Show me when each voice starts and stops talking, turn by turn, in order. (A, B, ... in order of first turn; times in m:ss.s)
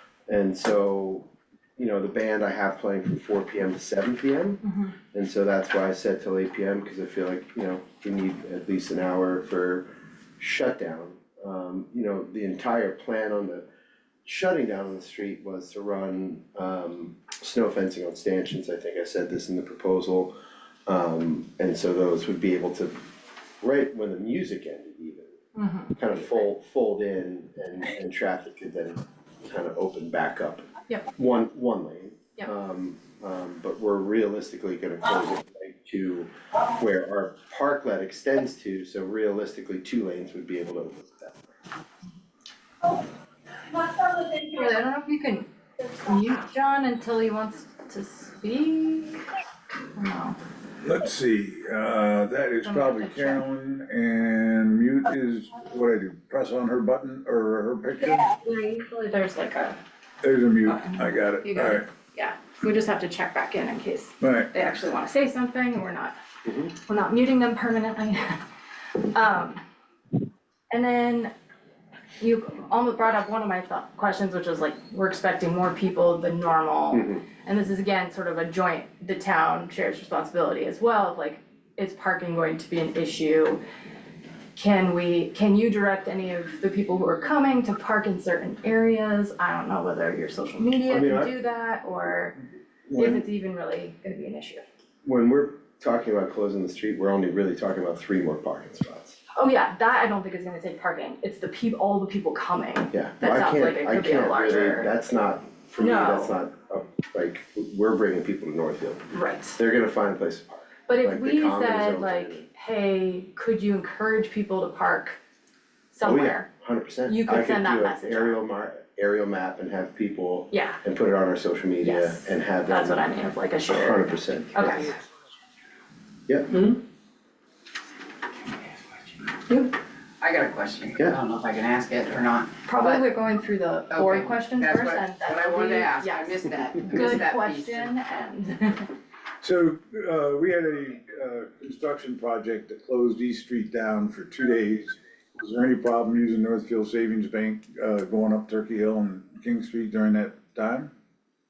0:00.3-0:04.6 A
0:04.6-0:04.9 B
0:05.1-0:13.6 A
0:14.2-0:20.3 A
0:20.9-0:23.0 A
0:23.6-0:25.4 A
0:25.6-0:25.9 B
0:25.9-0:41.5 A
0:43.8-0:49.2 B
0:50.0-0:50.4 B
0:50.8-0:58.3 C
0:52.6-0:53.4 B
0:58.2-0:59.8 B
1:00.2-1:01.9 C
1:00.7-1:06.2 B
1:04.2-1:04.5 C
1:06.5-1:06.7 A
1:06.7-1:08.4 B
1:09.1-1:09.6 B
1:10.7-1:11.3 B
1:12.2-1:23.6 B
1:16.9-1:17.2 A
1:24.6-1:32.4 B
1:30.9-1:31.3 A
1:32.9-1:34.6 B
1:35.0-1:39.2 A
1:39.4-1:44.9 B
1:42.9-1:52.5 A
1:45.8-1:46.4 B
1:49.1-1:49.6 B
1:50.9-1:55.2 B
1:55.9-1:56.5 B
1:56.0-2:03.0 A
1:57.0-1:58.4 B
2:00.5-2:00.8 B
2:01.8-2:04.9 B
2:03.7-2:04.9 A
2:06.3-2:06.6 A
2:10.2-2:13.2 D
2:12.6-2:18.9 B
2:13.9-2:18.3 D
2:19.4-2:30.9 C